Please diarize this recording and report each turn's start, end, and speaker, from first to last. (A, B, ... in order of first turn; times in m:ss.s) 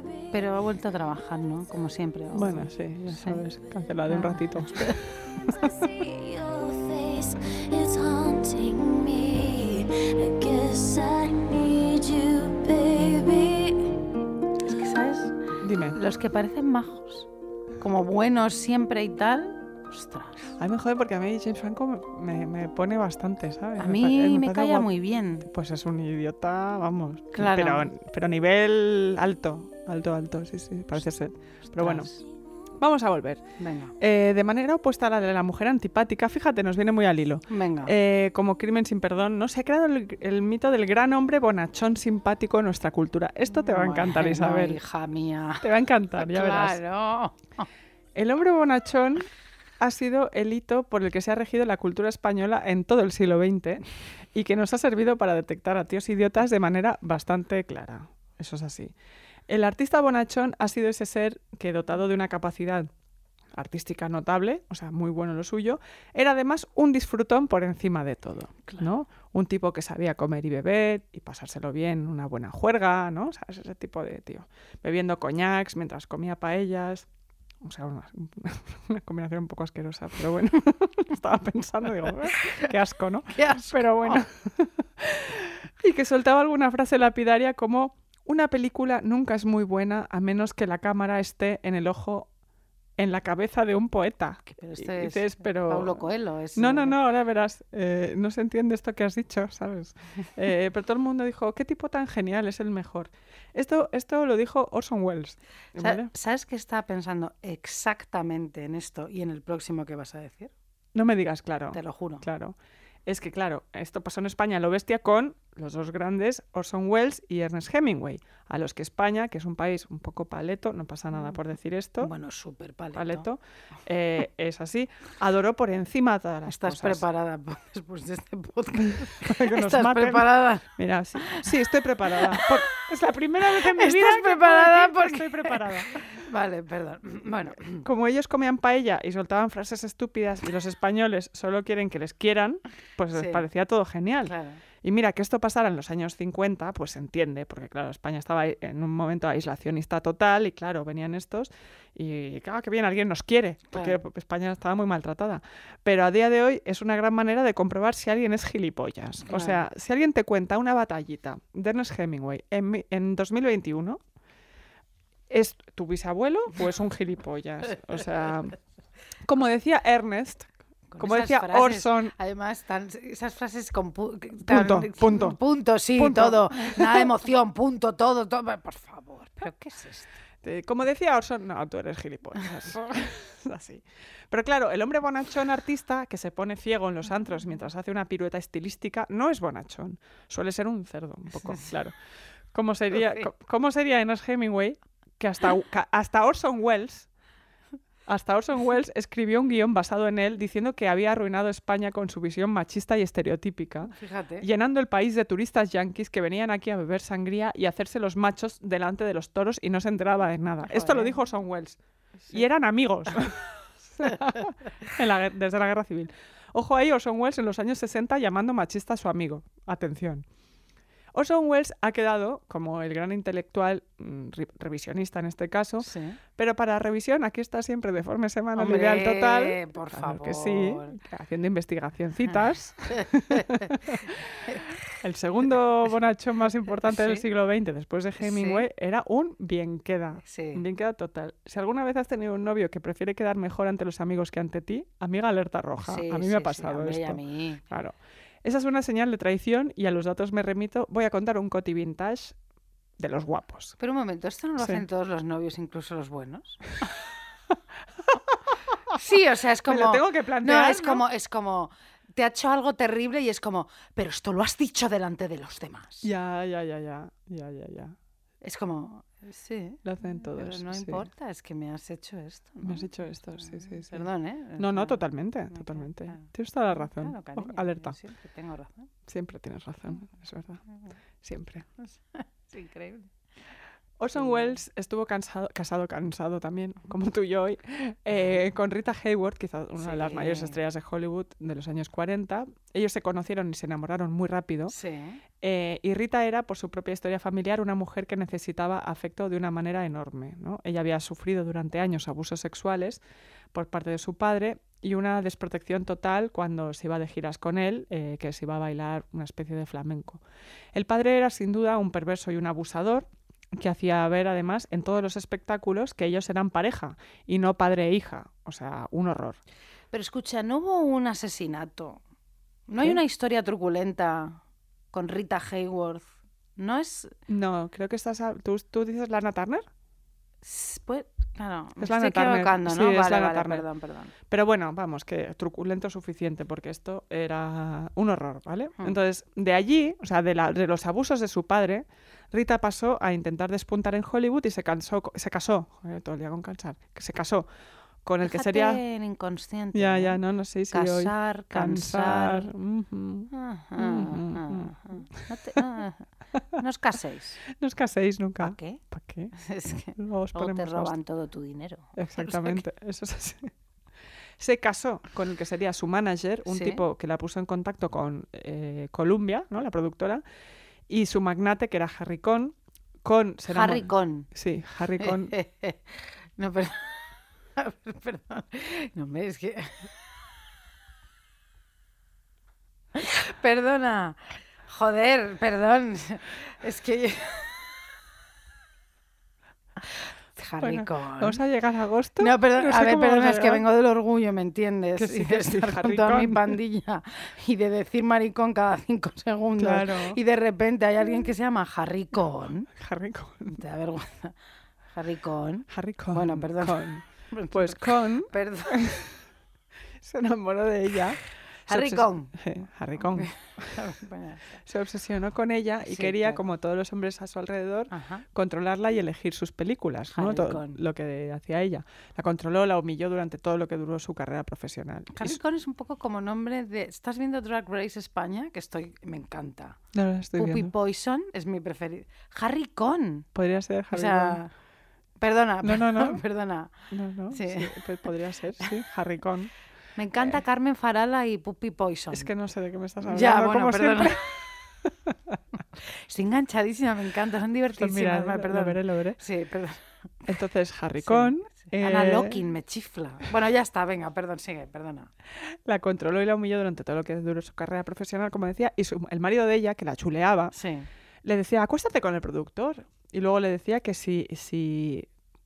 0:00.3-0:03.4 A
0:02.3-0:05.7 B
0:04.1-0:05.0 A
0:06.1-0:13.8 C
0:14.6-0:15.4 A
0:15.6-0:16.0 B
0:15.9-0:17.3 A
0:17.8-0:20.5 A
0:20.6-0:24.9 B
0:23.8-0:25.5 A
0:25.4-0:32.1 B
0:27.3-0:27.9 A
0:31.8-0:32.2 A
0:32.8-0:33.4 B
0:33.6-0:33.9 A
0:34.0-0:44.8 B
0:37.5-0:37.9 A
0:43.5-0:45.6 A
0:45.6-0:46.8 B
0:46.2-0:47.7 A
0:48.1-0:49.3 B
0:49.8-0:58.9 B
0:59.5-1:02.9 B
1:03.5-1:17.1 B
1:17.6-1:32.3 B
1:23.3-1:24.2 A
1:33.0-1:46.1 B
1:34.5-1:37.0 A
1:45.8-1:50.5 A
1:50.9-2:02.1 B
1:51.7-1:52.2 A
2:02.0-2:03.2 A
2:02.9-2:07.0 B
2:06.5-2:10.6 A
2:08.9-2:16.0 B
2:12.2-2:12.5 A
2:13.5-2:17.8 A
2:17.8-2:44.0 B
2:23.1-2:23.4 A
2:24.2-2:24.6 A
2:33.7-2:34.0 A
2:39.3-2:39.6 A
2:45.3-2:48.6 B
2:49.2-2:52.1 B
2:50.9-3:00.1 A
2:54.4-2:55.4 B
2:55.9-2:57.1 B
3:00.4-3:11.9 B
3:12.5-3:17.1 B
3:18.0-3:40.2 B
3:23.9-3:24.5 A
3:30.6-3:31.2 A
3:41.1-4:12.4 B
3:45.8-3:46.2 A
3:48.6-3:50.9 A
3:52.9-3:53.7 A
3:56.8-3:57.2 A
3:58.2-3:58.6 A
4:00.2-4:00.6 A
4:05.8-4:07.6 A
4:13.0-4:13.8 B
4:13.8-4:16.6 A
4:18.9-4:26.1 A
4:19.6-4:21.0 B
4:26.0-4:27.9 B
4:28.4-4:38.9 A
4:29.8-4:31.0 B
4:32.6-4:38.0 B
4:39.1-4:40.6 B
4:41.2-4:41.6 B
4:41.8-4:43.1 A
4:44.0-4:54.7 B
4:44.1-4:44.6 A
4:49.8-4:50.6 A
4:54.7-4:55.2 A
4:55.4-5:03.0 B
5:03.5-5:10.2 B
5:10.7-5:19.4 B
5:19.9-5:22.0 A
5:22.7-5:24.4 A
5:24.9-5:27.1 A
5:27.3-5:29.6 B
5:30.4-5:34.1 A
5:31.8-5:33.6 B
5:34.3-5:47.5 B
5:48.0-5:48.8 B
5:48.2-5:50.2 A
5:49.7-5:54.7 B
5:50.7-5:52.5 A
5:53.3-5:57.4 A
5:57.5-5:59.3 B
5:58.4-5:58.8 A
5:59.3-6:02.6 A
5:59.9-6:00.9 B
6:02.0-6:03.5 B
6:04.4-6:10.2 B
6:06.5-6:06.8 A
6:10.9-6:15.3 B
6:13.5-6:14.3 A
6:15.0-6:19.8 A
6:22.9-6:27.6 A
6:30.4-6:31.4 A
6:30.6-6:33.6 B
6:32.2-6:42.7 A
6:35.0-6:36.6 B
6:39.6-6:40.2 B
6:42.8-6:43.6 B
6:43.5-6:44.3 A
6:44.9-6:48.8 A
6:45.7-6:49.1 B
6:50.0-6:53.8 B
6:51.7-6:52.4 A
6:53.0-6:54.6 A
6:54.6-7:05.4 B
6:55.8-6:56.4 A
6:57.9-6:58.2 A
7:00.1-7:00.8 A
7:05.1-7:09.8 A
7:09.9-7:10.7 B
7:10.4-7:13.3 A
7:13.3-7:14.4 B
7:13.9-7:14.5 A
7:15.2-7:16.7 A
7:15.6-7:16.2 B
7:16.9-7:19.5 B
7:17.3-7:17.8 A
7:20.0-7:22.3 A
7:22.1-7:25.4 B
7:23.0-7:24.2 A
7:26.0-7:29.8 A
7:27.7-7:29.2 B
7:30.2-7:32.4 B
7:31.0-7:35.1 A
7:35.6-7:40.5 B
7:40.5-7:40.9 A
7:41.2-7:45.1 B